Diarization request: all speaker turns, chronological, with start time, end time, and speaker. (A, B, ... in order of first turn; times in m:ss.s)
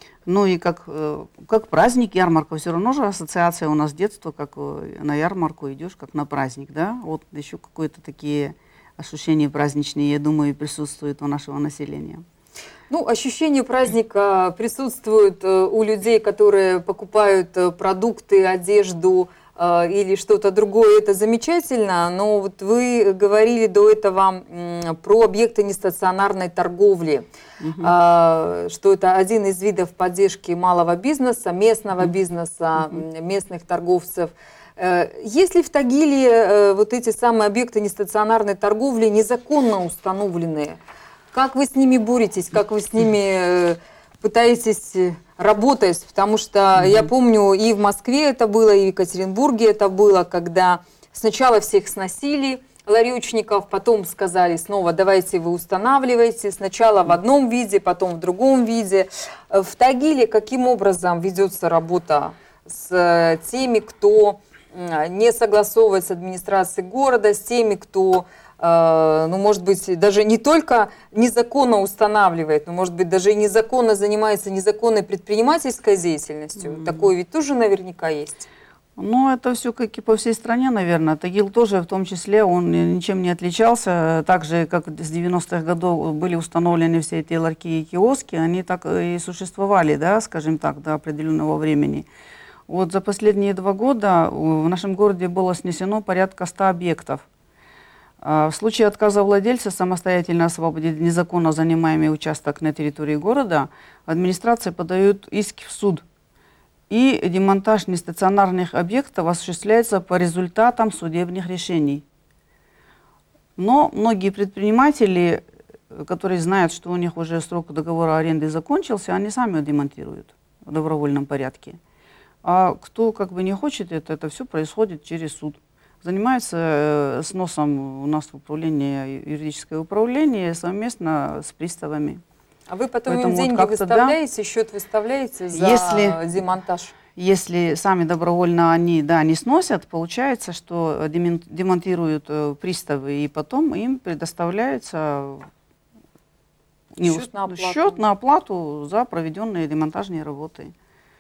0:00.3-0:12.2 A
0:12.9-0:27.2 B
0:27.6-0:27.9 A
0:27.8-0:40.8 B
0:41.3-1:18.5 B
0:46.8-0:47.1 A
1:16.6-1:17.1 A
1:19.0-1:32.1 A
1:32.7-1:37.2 A
1:38.2-1:46.0 A
1:46.9-1:52.0 A
1:53.6-2:01.8 A
2:02.4-2:12.2 A
2:12.7-2:17.0 B
2:13.1-2:14.2 A
2:15.5-2:16.2 A
2:17.2-2:25.5 A
2:27.0-2:30.7 A
2:27.0-2:28.0 B